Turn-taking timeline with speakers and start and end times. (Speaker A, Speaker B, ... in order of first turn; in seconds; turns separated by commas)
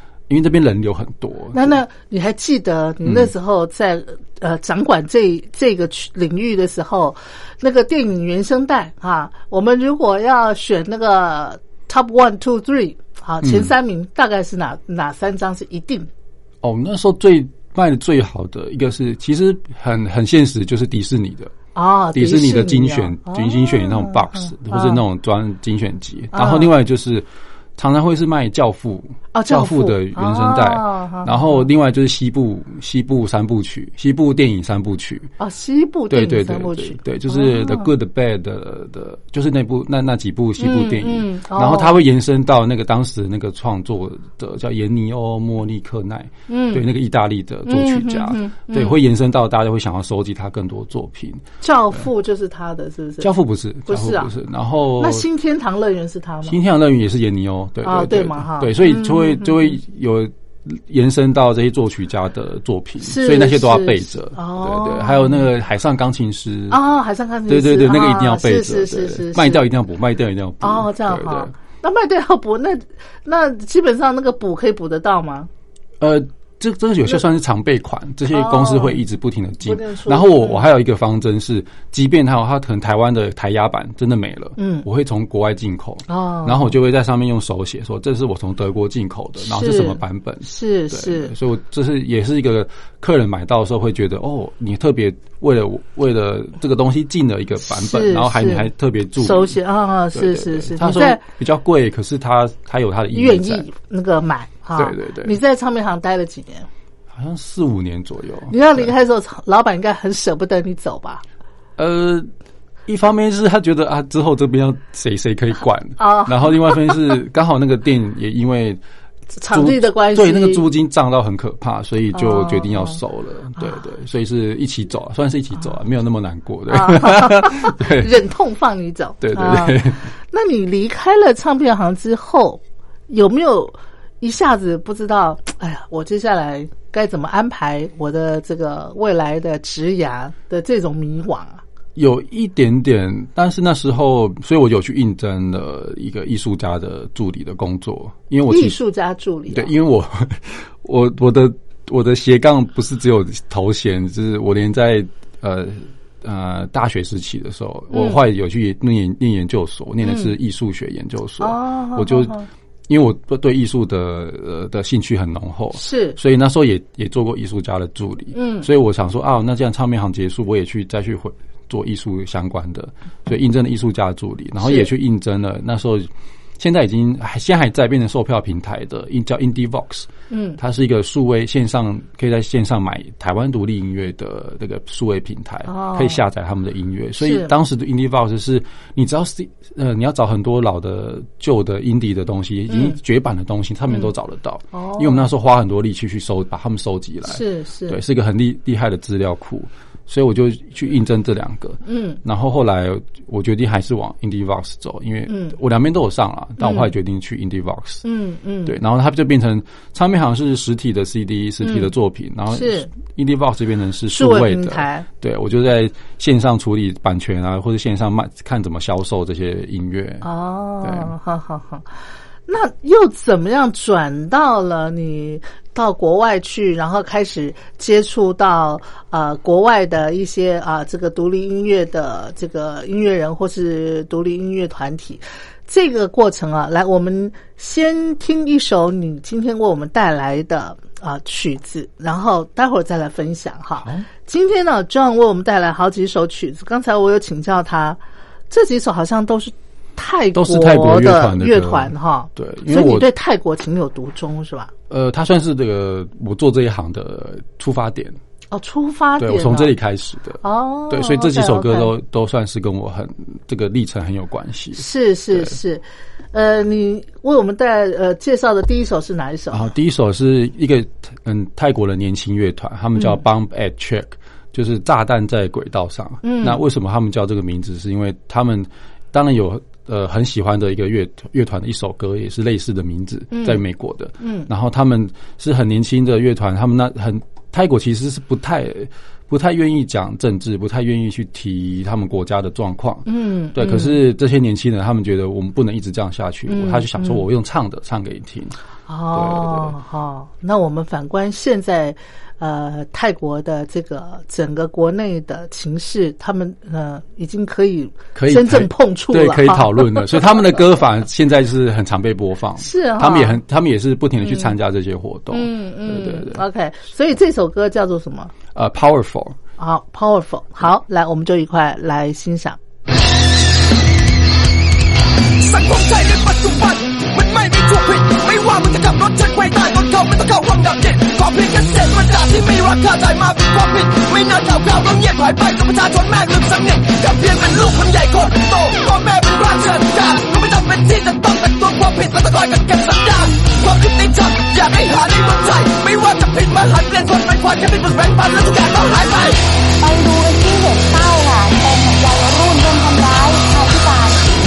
Speaker A: 0.3-1.8, Speaker B: 1.5-16.1, Speaker A: 3.0-3.3, Speaker A: 13.4-13.7, Speaker A: 16.6-21.5, Speaker B: 21.8-25.0, Speaker A: 22.1-27.3, Speaker B: 26.3-26.7, Speaker A: 27.8-35.3, Speaker B: 29.3-31.7, Speaker B: 35.4-37.9, Speaker A: 36.1-51.5, Speaker B: 40.6-42.0, Speaker B: 46.5-46.8, Speaker B: 47.7-49.0, Speaker B: 51.6-53.3, Speaker A: 53.2-55.2, Speaker B: 53.9-54.3, Speaker B: 55.0-56.6, Speaker A: 56.5-66.8, Speaker B: 57.8-59.8, Speaker B: 63.0-65.5, Speaker B: 66.7-69.7, Speaker A: 67.5-71.5, Speaker B: 70.6-75.5, Speaker A: 76.0-99.6, Speaker B: 78.3-79.0, Speaker B: 79.6-80.7, Speaker B: 84.6-84.8, Speaker B: 86.1-86.7, Speaker B: 89.4-91.3, Speaker B: 97.7-101.2, Speaker A: 100.1-103.7, Speaker B: 103.1-106.7, Speaker A: 104.8-105.4, Speaker A: 107.1-108.9, Speaker B: 108.5-111.2, Speaker A: 111.8-112.3, Speaker A: 112.9-118.8, Speaker B: 116.0-117.1, Speaker B: 119.4-120.6, Speaker A: 119.5-128.2, Speaker B: 122.1-123.0, Speaker B: 126.7-141.6, Speaker A: 129.2-130.0, Speaker A: 142.0-148.8, Speaker B: 148.5-149.7, Speaker A: 149.5-162.4, Speaker B: 157.9-158.2, Speaker B: 160.0-160.3, Speaker B: 161.4-162.5, Speaker A: 162.9-208.1, Speaker B: 165.7-166.2, Speaker B: 168.3-168.7, Speaker B: 174.6-174.9, Speaker B: 180.3-180.6, Speaker B: 185.7-186.2, Speaker B: 187.2-187.5, Speaker B: 192.7-193.0, Speaker B: 194.7-195.3, Speaker B: 197.3-198.0, Speaker B: 201.8-202.2, Speaker B: 205.3-205.6, Speaker B: 206.6-206.9, Speaker B: 208.0-208.8, Speaker A: 208.7-220.3, Speaker B: 211.6-211.9, Speaker B: 212.5-212.9, Speaker B: 214.1-215.1, Speaker B: 220.2-221.9, Speaker A: 220.8-221.1, Speaker B: 222.5-254.7, Speaker A: 250.3-253.1, Speaker A: 254.9-258.2, Speaker B: 258.5-259.7, Speaker A: 259.2-265.6, Speaker B: 260.4-261.9, Speaker B: 264.8-269.7, Speaker A: 269.5-298.6, Speaker B: 276.2-276.6, Speaker B: 283.3-283.6, Speaker B: 284.2-284.5, Speaker B: 293.1-294.0, Speaker B: 296.5-297.2, Speaker B: 298.9-310.6, Speaker A: 299.1-299.7, Speaker A: 308.1-316.4, Speaker B: 312.6-313.4, Speaker B: 314.2-314.5, Speaker B: 315.3-318.3, Speaker A: 318.5-319.4, Speaker B: 319.6-322.6, Speaker C: 325.4-349.4, Speaker D: 349.8-354.3